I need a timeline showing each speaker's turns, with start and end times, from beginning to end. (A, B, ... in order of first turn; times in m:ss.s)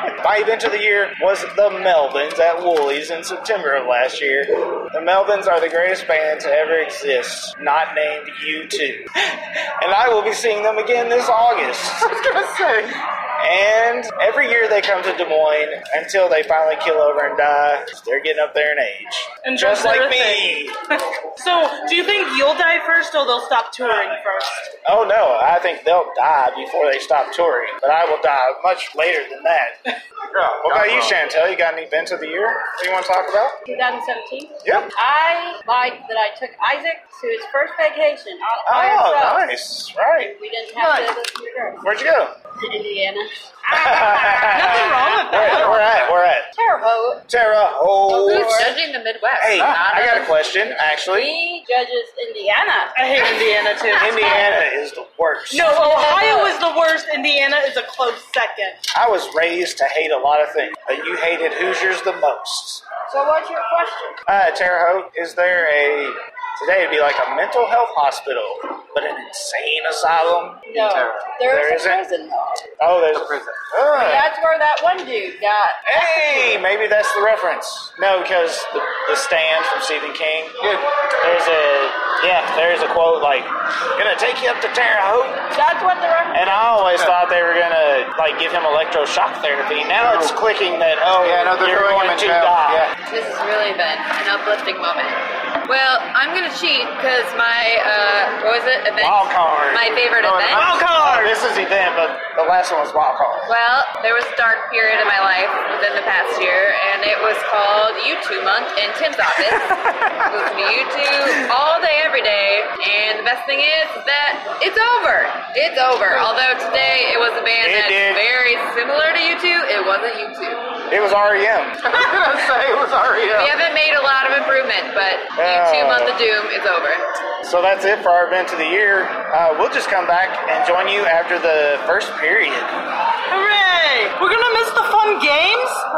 0:00.2-0:09.1 A
0:09.8-0:12.1 A
0:12.0-0:12.9 B
0:13.4-0:20.7 A
0:19.4-0:20.7 C
0:21.4-0:24.7 C
0:24.8-0:29.8 A
0:30.3-0:31.2 B
0:30.6-0:33.6 A
0:33.6-0:39.6 D
0:38.7-0:40.3 A
0:40.2-0:41.8 D
0:41.8-0:42.3 A
0:42.6-0:45.6 D
0:43.7-0:46.5 A
0:44.4-0:45.9 C
0:46.5-0:47.2 D
0:47.3-0:48.7 A
0:48.1-0:48.8 D
0:48.1-0:50.3 E
0:49.4-0:51.3 A
0:50.9-0:52.9 D
0:52.9-0:54.4 C
0:53.9-0:55.7 A
0:55.5-0:58.8 C
0:55.7-0:56.6 D
0:58.9-1:02.8 A
1:03.1-1:04.2 D
1:04.3-1:10.6 A
1:10.7-1:12.6 D
1:10.8-1:11.2 B
1:11.4-1:12.0 A
1:12.8-1:14.3 A
1:13.1-1:13.6 B
1:13.9-1:16.7 D
1:15.9-1:20.6 A
1:21.2-1:25.4 A
1:25.5-1:26.7 D
1:26.3-1:32.9 A
1:26.8-1:27.1 B
1:30.0-1:30.3 B
1:31.2-1:32.9 B
1:33.0-1:40.7 E
1:39.0-1:43.5 A
1:40.5-1:41.4 C
1:43.5-2:00.6 E
1:57.6-1:58.2 A
2:00.9-2:01.8 A
2:01.8-2:03.5 B
2:03.3-2:07.0 E
2:05.4-2:06.2 A
2:07.4-2:12.7 A
2:13.3-2:15.8 C